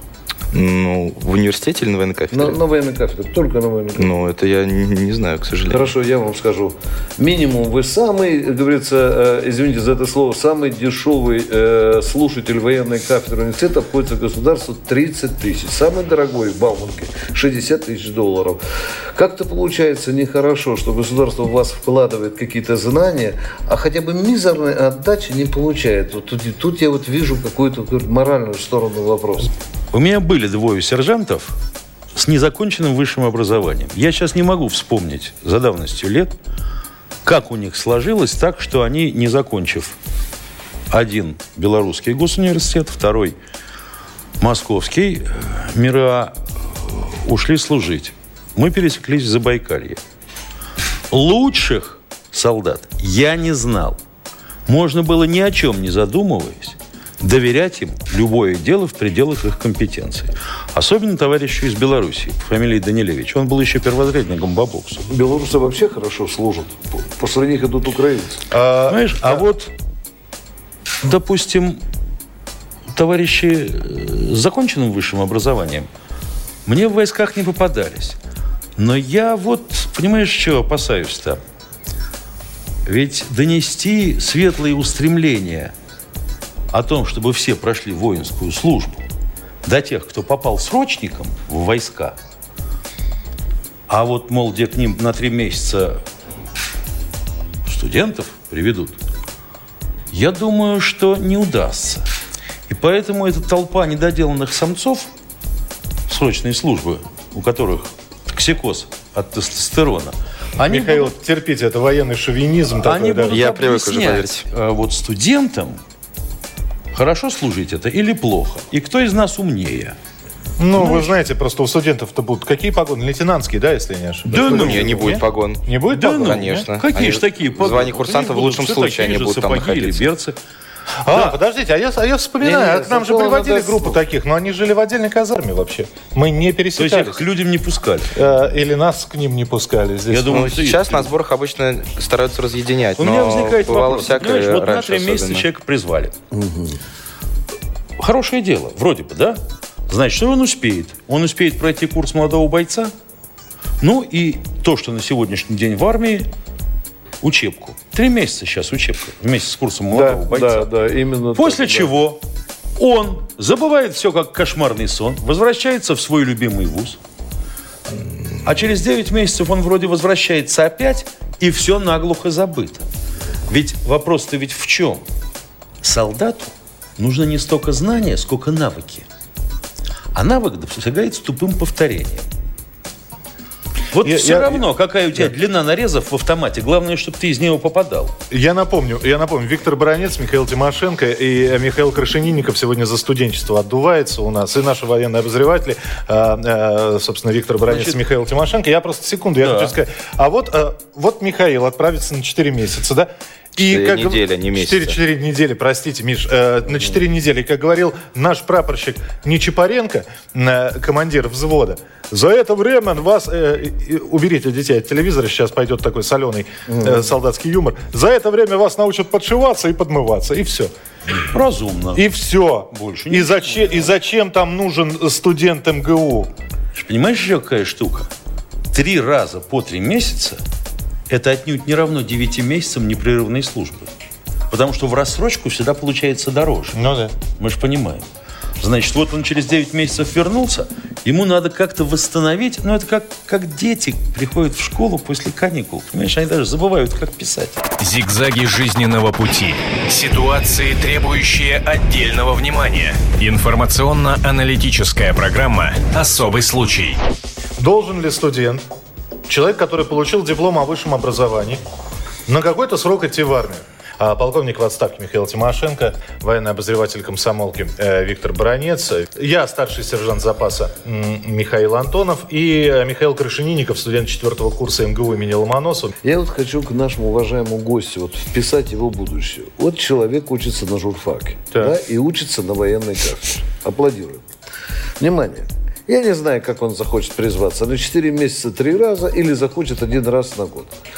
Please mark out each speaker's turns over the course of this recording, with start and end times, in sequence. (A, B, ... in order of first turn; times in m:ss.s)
0:00.5-0:02.6 A
0:02.3-0:04.1 B
0:04.0-0:05.9 A
0:05.7-0:18.6 B
0:19.1-0:29.5 B
0:29.9-0:31.6 C
0:32.1-0:36.3 C
0:37.2-0:40.0 C
0:40.9-0:43.4 C
0:44.4-0:50.0 C
0:51.1-0:54.0 C
0:54.7-1:05.1 C
1:05.1-1:08.4 B
1:08.5-1:09.4 D
1:08.9-1:09.7 C
1:11.0-1:11.8 C
1:12.9-1:15.9 C
1:16.6-1:18.2 C
1:18.8-1:21.4 C
1:22.8-1:25.7 C
1:26.7-1:29.0 C
1:29.6-1:32.2 C
1:33.9-1:36.0 C
1:37.6-1:39.0 C
1:40.1-1:42.0 C
1:42.7-1:45.1 C
1:46.1-1:51.1 C
1:50.6-1:53.4 D
1:52.8-1:55.8 C
1:53.3-1:54.4 A
1:56.9-2:00.0 C
2:00.6-2:06.6 D
2:00.8-2:01.1 C
2:04.3-2:05.2 C
2:04.4-2:10.1 A
2:05.9-2:10.4 C
2:11.0-2:17.2 D
2:11.1-2:11.3 C
2:12.4-2:14.0 B
2:16.8-2:18.1 C
2:18.1-2:20.4 D
2:20.1-2:21.1 C
2:20.3-2:25.4 A
2:23.0-2:26.1 C
2:26.3-2:26.8 B
2:28.0-2:32.9 C
2:33.8-2:36.3 C
2:37.2-2:40.7 C
2:39.9-2:41.9 B
2:41.3-2:42.2 C
2:42.8-2:47.0 C
2:48.4-2:52.9 C
2:53.5-2:55.0 C
2:55.8-2:59.1 C
3:00.1-3:02.2 C
3:03.9-3:08.1 C
3:04.0-3:04.6 D
3:08.3-3:40.7 D
3:17.6-3:18.0 C
3:19.4-3:19.7 C
3:23.6-3:25.0 A
3:41.3-3:42.1 C
3:41.9-3:46.3 D
3:42.7-3:43.8 C
3:46.7-3:48.1 C
3:48.7-3:50.4 C
3:51.1-3:53.9 C
3:54.5-3:56.8 C
3:56.7-3:57.1 D
3:57.4-3:58.0 C
3:58.6-4:07.6 C
4:07.8-4:17.0 E
4:17.6-4:18.6 D
4:19.3-4:21.6 D
4:22.3-4:35.9 D
4:36.0-4:44.2 B
4:45.0-4:50.7 B